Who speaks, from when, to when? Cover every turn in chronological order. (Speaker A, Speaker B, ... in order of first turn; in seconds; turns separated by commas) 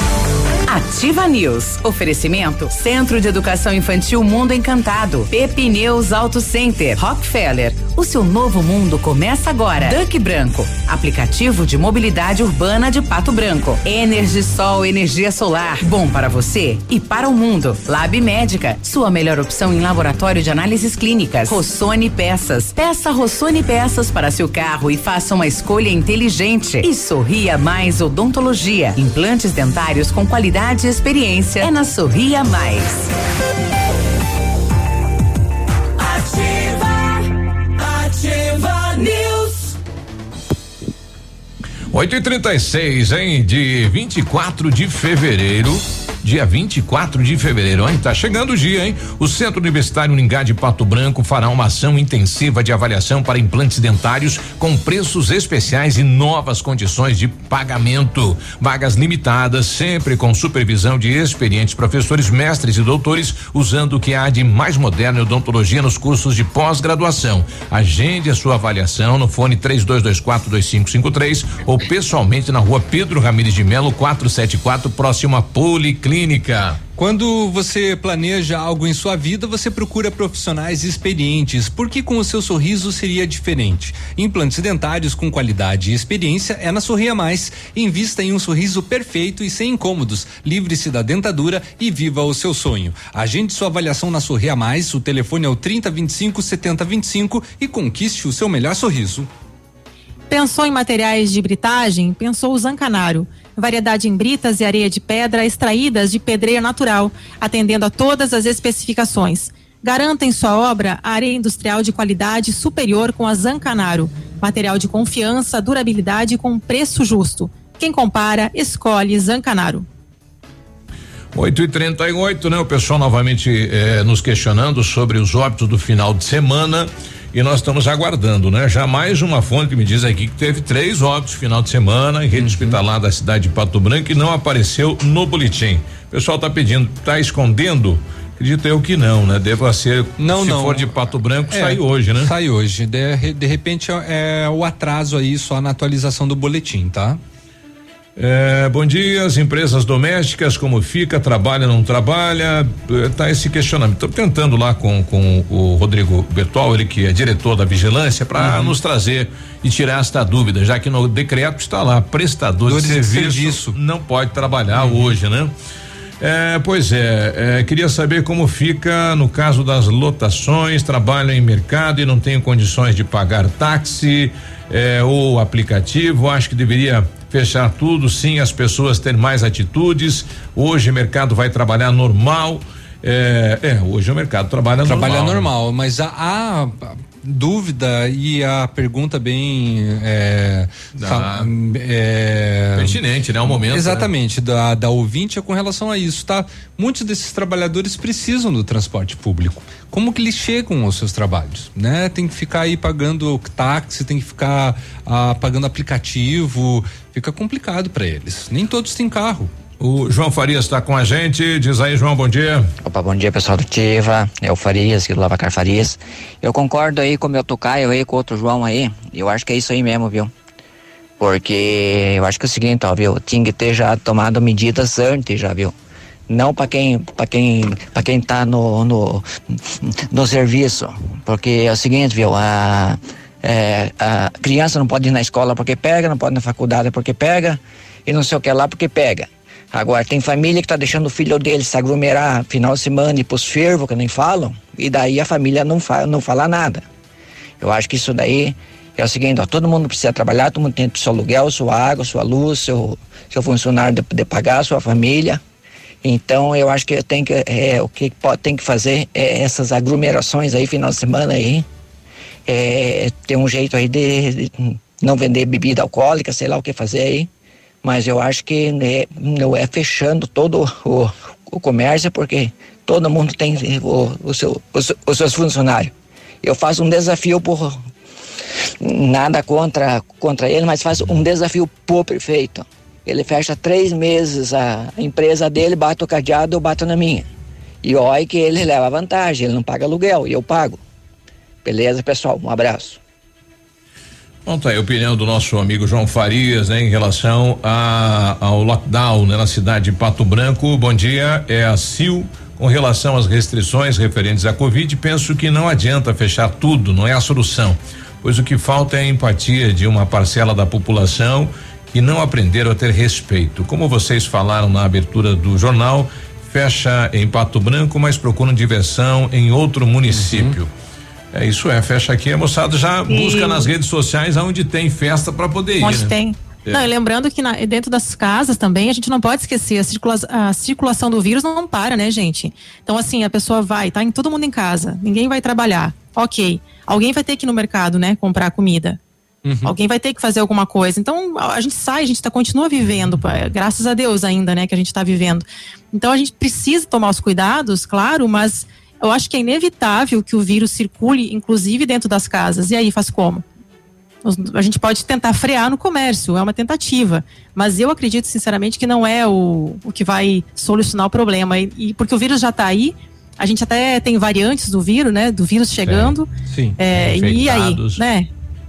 Speaker A: 0.7-33.1, Speaker B: 41.9-76.8, Speaker C: 77.0-99.3, Speaker D: 100.3-119.8, Speaker B: 121.3-142.3, Speaker C: 132.3-132.8, Speaker C: 140.2-140.9, Speaker C: 141.5-147.2, Speaker B: 148.2-165.5, Speaker C: 158.4-158.8, Speaker C: 162.7-163.8, Speaker C: 164.8-165.1, Speaker B: 166.2-185.5, Speaker C: 184.8-193.0, Speaker B: 190.9-191.5, Speaker B: 192.8-194.1, Speaker C: 193.5-209.5, Speaker B: 209.8-212.7, Speaker E: 212.8-220.3, Speaker E: 221.2-225.7, Speaker E: 226.3-246.8, Speaker E: 247.6-255.4, Speaker E: 256.0-261.6, Speaker E: 262.5-267.3, Speaker E: 267.8-277.8, Speaker E: 278.8-287.2, Speaker E: 287.8-290.8, Speaker E: 291.6-293.0, Speaker B: 294.4-320.7, Speaker C: 320.1-320.5, Speaker B: 321.3-326.1, Speaker D: 323.1-323.7, Speaker D: 325.8-339.0, Speaker C: 339.4-339.7, Speaker D: 339.6-353.4, Speaker D: 354.2-368.3, Speaker B: 365.9-366.1, Speaker C: 366.5-366.8, Speaker B: 366.9-368.0